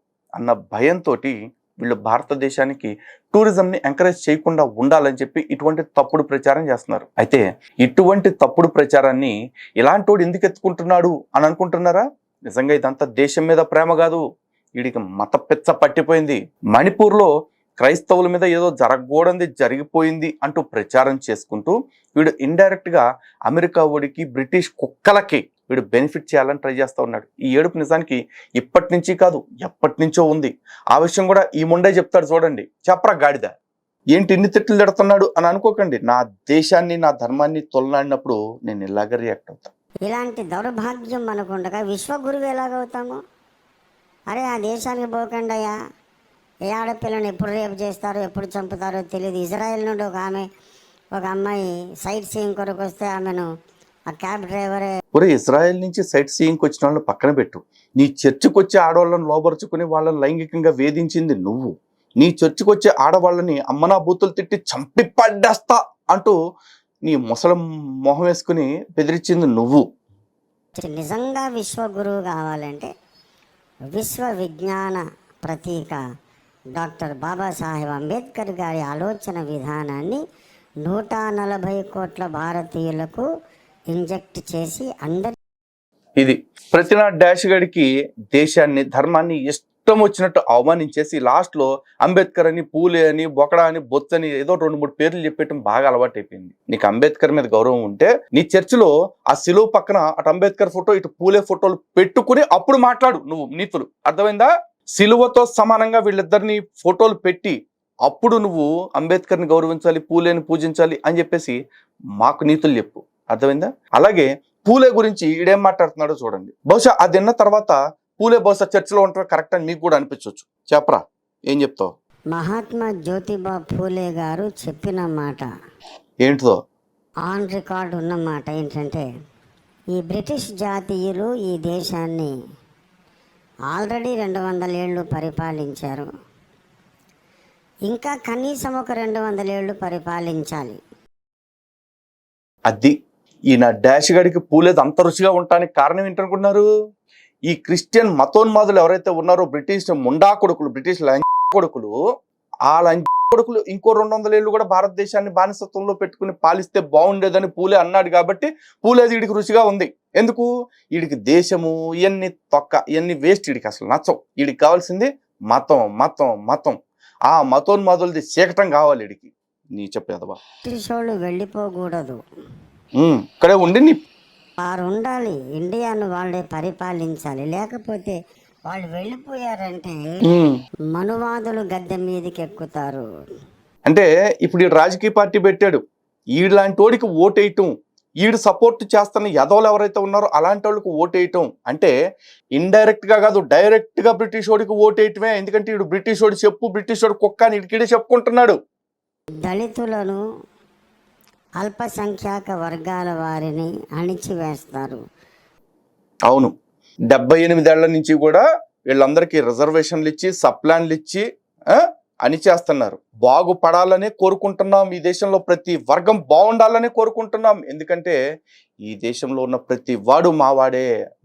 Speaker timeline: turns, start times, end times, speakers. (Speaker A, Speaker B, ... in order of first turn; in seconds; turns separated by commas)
Speaker A: 0.3-14.2, Speaker A: 14.8-17.3, Speaker A: 17.8-33.5, Speaker A: 34.1-39.7, Speaker B: 40.0-43.2, Speaker B: 44.3-45.7, Speaker B: 46.7-50.4, Speaker B: 51.1-53.5, Speaker B: 54.1-54.9, Speaker A: 55.1-66.3, Speaker A: 67.0-69.8, Speaker B: 70.8-72.9, Speaker B: 73.9-76.0, Speaker B: 76.8-80.2, Speaker B: 80.8-83.2, Speaker B: 83.9-85.3, Speaker A: 86.2-111.6, Speaker A: 112.2-121.9, Speaker B: 122.3-125.4, Speaker A: 126.2-126.5, Speaker B: 127.2-129.1, Speaker B: 129.9-132.3, Speaker B: 133.7-136.1, Speaker B: 137.9-140.8, Speaker A: 142.7-142.9, Speaker A: 143.5-146.6, Speaker A: 147.5-151.9, Speaker A: 152.7-166.8, Speaker A: 167.3-170.4, Speaker B: 170.6-172.2, Speaker A: 173.0-174.0, Speaker B: 174.6-178.2, Speaker B: 178.7-180.2, Speaker A: 180.2-180.5, Speaker B: 180.9-183.0, Speaker A: 183.9-185.8, Speaker A: 186.3-187.7, Speaker A: 188.2-191.9, Speaker A: 192.6-198.6, Speaker B: 199.4-200.2, Speaker B: 201.6-205.0, Speaker A: 207.1-218.2, Speaker A: 218.9-220.9